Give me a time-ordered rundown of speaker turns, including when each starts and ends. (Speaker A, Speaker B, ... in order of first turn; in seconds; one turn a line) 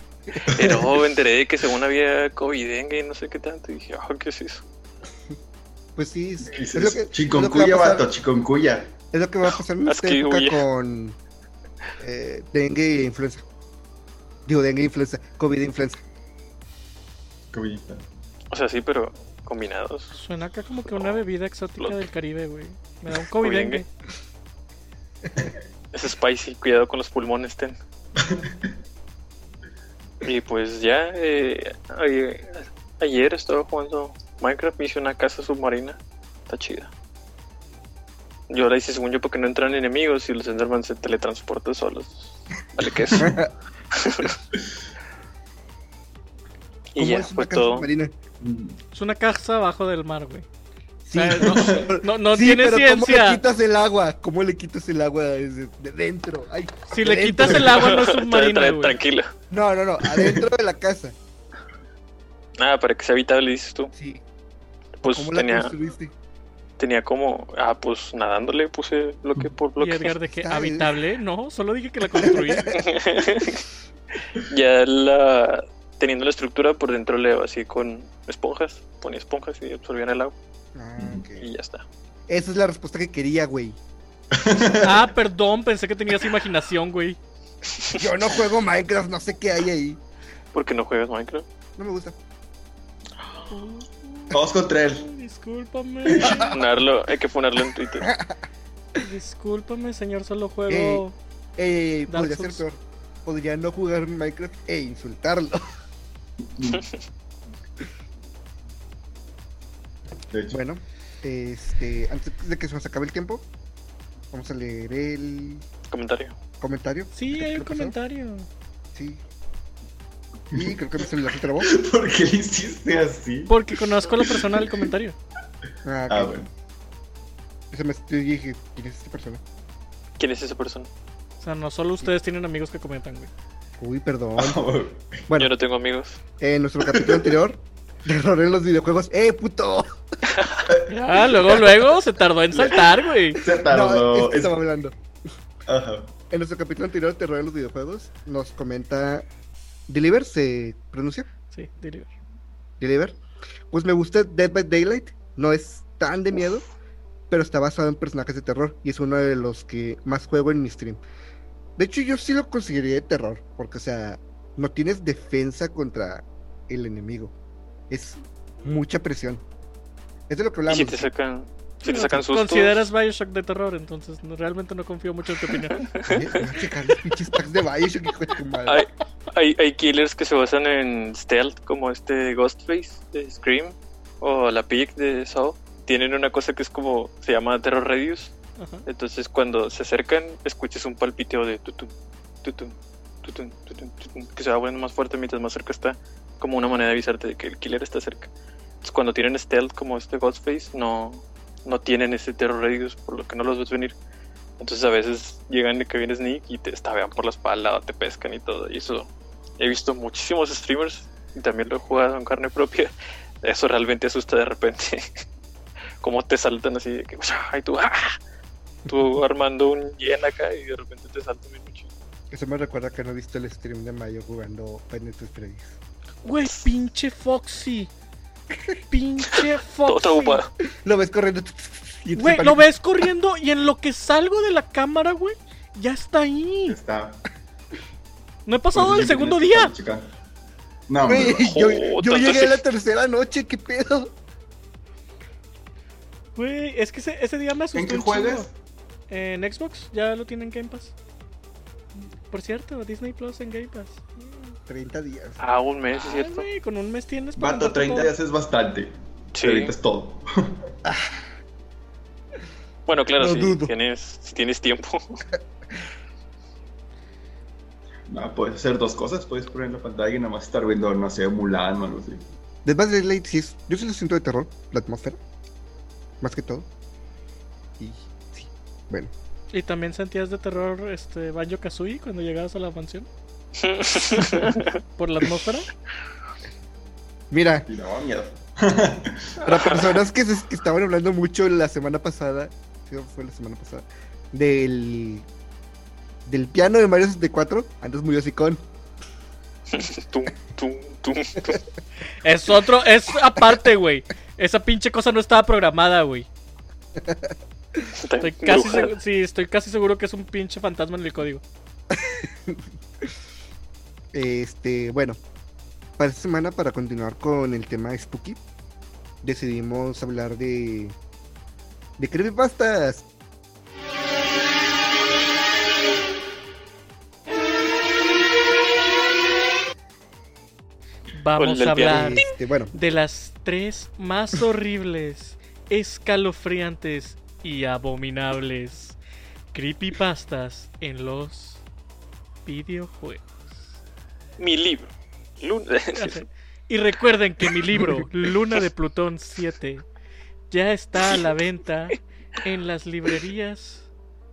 Speaker A: 0.4-1.0
Speaker B: 0.5-4.6
Speaker C: 6.0-8.1
Speaker A: 6.4-9.0
Speaker C: 9.1-11.2
Speaker B: 9.9-10.6
Speaker C: 12.0-13.4
Speaker C: 14.5-16.0
Speaker A: 17.5-18.0
Speaker B: 18.5-20.2
Speaker D: 20.1-23.9
Speaker B: 20.9-21.2
Speaker B: 21.8-22.0
Speaker B: 23.2-23.8
Speaker B: 25.9-27.8
Speaker A: 28.2-28.5
Speaker B: 30.2-36.9
Speaker B: 38.5-43.4
Speaker A: 43.1-43.4
Speaker C: 43.2-43.5
Speaker B: 43.9-44.4
Speaker B: 46.9-47.9
Speaker C: 47.0-48.1
Speaker A: 48.4-48.8
Speaker D: 48.9-50.5
Speaker C: 51.0-58.0
Speaker D: 51.1-53.4
Speaker A: 51.4-51.9
Speaker D: 56.9-59.0
Speaker B: 57.7-59.3
Speaker C: 59.5-61.1
Speaker A: 60.0-60.5
Speaker B: 62.6-63.9
Speaker C: 63.9-64.2
Speaker B: 65.0-65.7
Speaker C: 65.1-66.1
Speaker B: 66.8-70.1
Speaker D: 69.8-72.7
Speaker C: 70.3-71.0
Speaker C: 72.2-72.8
Speaker B: 72.7-73.7
Speaker B: 74.4-80.3
Speaker C: 80.8-81.5
Speaker A: 81.0-81.2
Speaker B: 81.4-81.8
Speaker C: 82.3-83.8
Speaker A: 84.3-85.1
Speaker D: 84.8-87.2
Speaker C: 87.9-90.0
Speaker B: 90.5-91.5
Speaker C: 91.8-92.2
Speaker B: 93.2-93.5
Speaker D: 93.5-94.4
Speaker A: 94.3-95.1
Speaker D: 95.0-96.5
Speaker A: 96.1-96.5
Speaker C: 96.2-96.5
Speaker B: 96.4-98.1
Speaker C: 98.0-98.4
Speaker D: 99.0-101.2
Speaker C: 100.7-101.0
Speaker C: 101.6-105.7
Speaker D: 102.1-102.6
Speaker A: 106.4-106.9
Speaker A: 110.3-110.6
Speaker C: 110.5-113.5
Speaker C: 114.3-115.6
Speaker B: 115.9-116.3
Speaker C: 116.6-118.0
Speaker D: 117.1-118.5
Speaker C: 119.0-119.2
Speaker C: 120.5-121.7
Speaker A: 121.6-124.8
Speaker D: 123.5-125.2
Speaker C: 125.8-126.4
Speaker A: 126.1-126.5
Speaker C: 127.7-129.4
Speaker B: 130.2-130.9
Speaker D: 131.4-133.3
Speaker C: 133.8-134.7
Speaker A: 134.4-135.2
Speaker B: 135.4-136.2
Speaker C: 136.4-140.0
Speaker A: 136.9-137.3
Speaker B: 140.3-140.7
Speaker A: 140.7-141.7
Speaker D: 140.9-143.4
Speaker A: 142.5-144.5
Speaker C: 143.6-144.9
Speaker A: 145.7-146.1
Speaker C: 146.3-149.3
Speaker C: 149.9-151.3
Speaker D: 151.5-152.1
Speaker C: 152.8-153.2
Speaker C: 153.7-156.7
Speaker C: 157.3-161.0
Speaker C: 161.8-167.3
Speaker C: 167.9-169.4
Speaker C: 170.3-171.1
Speaker B: 170.7-172.9
Speaker D: 171.8-175.9
Speaker B: 175.5-176.4
Speaker C: 176.1-178.9
Speaker B: 178.7-188.3
Speaker D: 188.6-188.9
Speaker B: 188.9-191.9
Speaker B: 192.4-198.3
Speaker B: 198.8-203.9
Speaker B: 204.6-212.9
Speaker B: 213.4-215.2
Speaker B: 216.0-218.2
Speaker B: 218.9-221.9
Speaker C: 222.3-225.8
Speaker D: 226.2-227.9
Speaker C: 228.5-228.8
Speaker D: 228.9-230.4
Speaker B: 229.3-230.5
Speaker C: 230.7-232.6
Speaker D: 232.2-236.8
Speaker A: 236.7-237.2
Speaker D: 238.5-239.7
Speaker A: 238.7-240.1
Speaker A: 240.9-241.5
Speaker C: 241.1-244.1
Speaker B: 241.3-242.6
Speaker D: 246.4-248.5
Speaker A: 247.7-248.5
Speaker D: 249.1-250.9
Speaker D: 252.3-254.6
Speaker C: 254.7-255.4
Speaker B: 255.4-256.4
Speaker D: 255.9-258.1
Speaker A: 257.4-260.6
Speaker B: 259.4-259.7
Speaker C: 260.9-261.1
Speaker B: 262.9-265.2
Speaker C: 263.2-263.7
Speaker A: 268.1-272.2
Speaker C: 272.6-275.2
Speaker C: 276.2-276.7
Speaker C: 277.8-279.1
Speaker D: 279.5-283.1
Speaker B: 283.6-284.7
Speaker D: 284.2-285.7
Speaker C: 287.3-287.7
Speaker A: 287.7-289.7
Speaker C: 289.4-295.3
Speaker C: 296.3-298.6
Speaker B: 299.7-301.6
Speaker D: 302.2-306.3
Speaker C: 307.0-307.8
Speaker B: 307.9-308.9
Speaker D: 308.2-311.4
Speaker C: 311.9-313.1
Speaker C: 314.1-315.2
Speaker C: 316.0-318.4
Speaker C: 319.2-321.0
Speaker C: 322.0-323.1
Speaker D: 331.1-332.2
Speaker B: 331.4-332.2
Speaker C: 331.8-332.8
Speaker D: 332.7-339.0
Speaker D: 339.5-341.6
Speaker D: 342.5-343.7
Speaker B: 344.4-346.2
Speaker D: 345.9-349.9
Speaker B: 347.4-347.9
Speaker D: 350.5-353.9